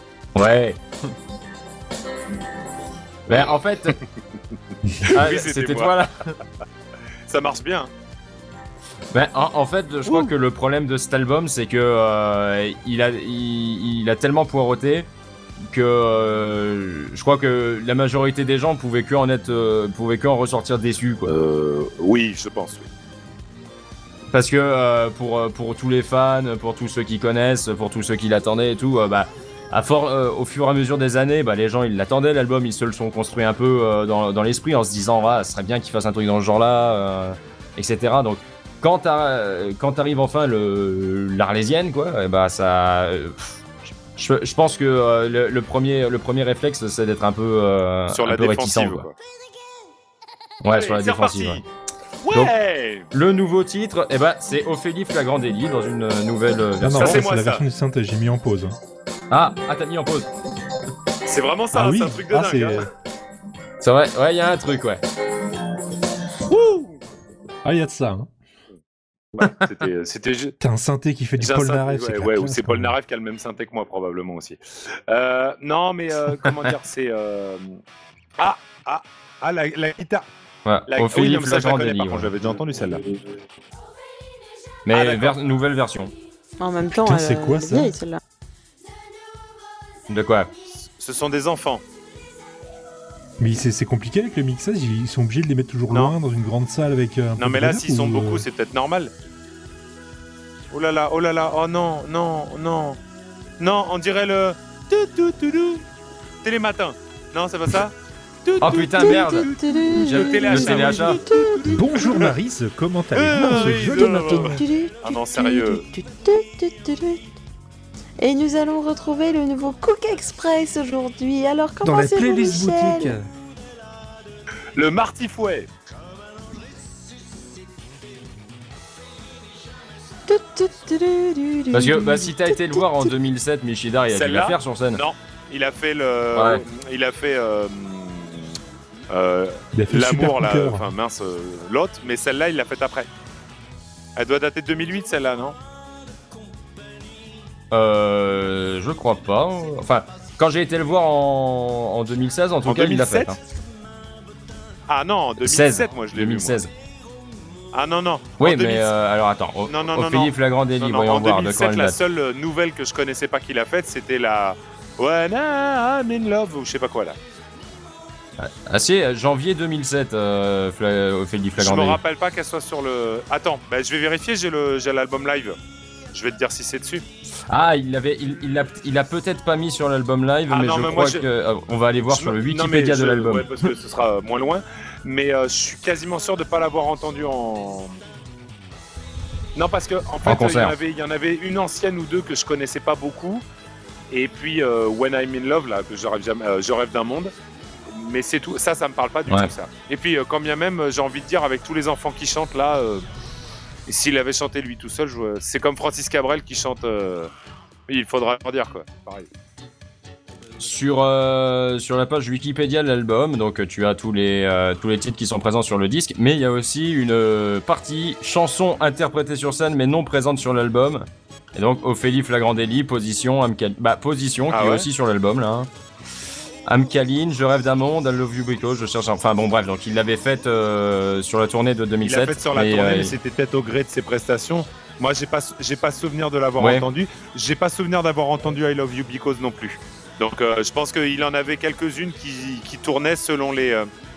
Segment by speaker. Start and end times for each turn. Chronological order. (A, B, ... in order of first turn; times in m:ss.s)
0:00.4-0:01.1 A
0:03.3-0:04.0 A
0:03.3-0:04.0 B
0:05.0-0:06.0 B
0:05.0-0:06.4 A
0:07.3-0:07.9 B
0:09.1-0:15.1 A
0:10.1-0:10.3 B
0:15.7-0:21.3 A
0:21.3-0:22.9 B
0:24.3-0:49.1 A
0:48.1-0:49.2 B
0:50.6-0:51.6 A
0:50.7-0:51.6 B
0:52.2-0:53.1 B
0:53.1-0:57.2 A
0:56.8-0:58.8 C
0:56.9-0:57.6 B
0:59.3-1:00.3 A
1:01.2-1:02.9 B
1:01.7-1:02.9 C
1:03.8-1:05.0 A
1:06.5-1:07.0 B
1:07.6-1:08.3 C
1:09.3-1:10.6 B
1:10.6-1:13.0 C
1:11.4-1:17.8 B
1:18.4-1:20.3 B
1:20.6-1:22.3 A
1:20.9-1:23.0 B
1:24.9-1:26.1 A
1:24.9-1:25.4 B
1:26.6-1:28.2 D
1:26.9-1:28.0 C
1:30.1-1:30.5 A
1:31.0-1:31.8 B
1:33.4-1:38.4 C
1:35.9-1:36.2 B
1:37.4-1:39.1 B
1:40.7-1:43.0 B
1:43.6-1:45.8 B
1:46.4-1:52.3 B
1:48.6-1:51.2 A
1:48.7-1:51.8 D
1:51.7-1:54.6 C
1:53.1-1:55.8 B
1:53.4-1:57.2 D
1:58.2-2:03.2 D
2:01.8-2:03.3 C
2:04.8-2:05.7 B
2:10.3-2:13.1 D
2:11.7-2:15.0 A
2:14.1-2:18.6 B
2:16.3-2:16.6 A
2:19.1-2:23.1 B
2:19.7-2:20.9 C
2:24.2-2:25.6 B
2:27.7-2:33.4 A
2:32.6-2:33.4 B
2:34.9-2:36.6 B
2:35.4-2:36.7 A
2:37.7-2:38.9 B
2:38.4-2:42.0 A
2:39.7-2:47.2 B
2:48.4-2:52.0 A
2:51.6-2:55.6 B
2:56.1-2:57.0 B
2:57.5-3:03.6 A
3:00.5-3:01.3 B
3:02.1-3:08.0 B
3:09.6-3:13.4 B
3:10.2-3:10.8 A
3:14.1-3:17.3 B
3:17.9-3:23.0 B
3:23.9-3:27.3 B
3:27.9-3:29.3 B
3:30.6-3:45.7 A
3:44.5-3:44.9 B
3:46.7-3:53.2 A
3:52.0-4:03.9 B
3:56.6-3:56.9 A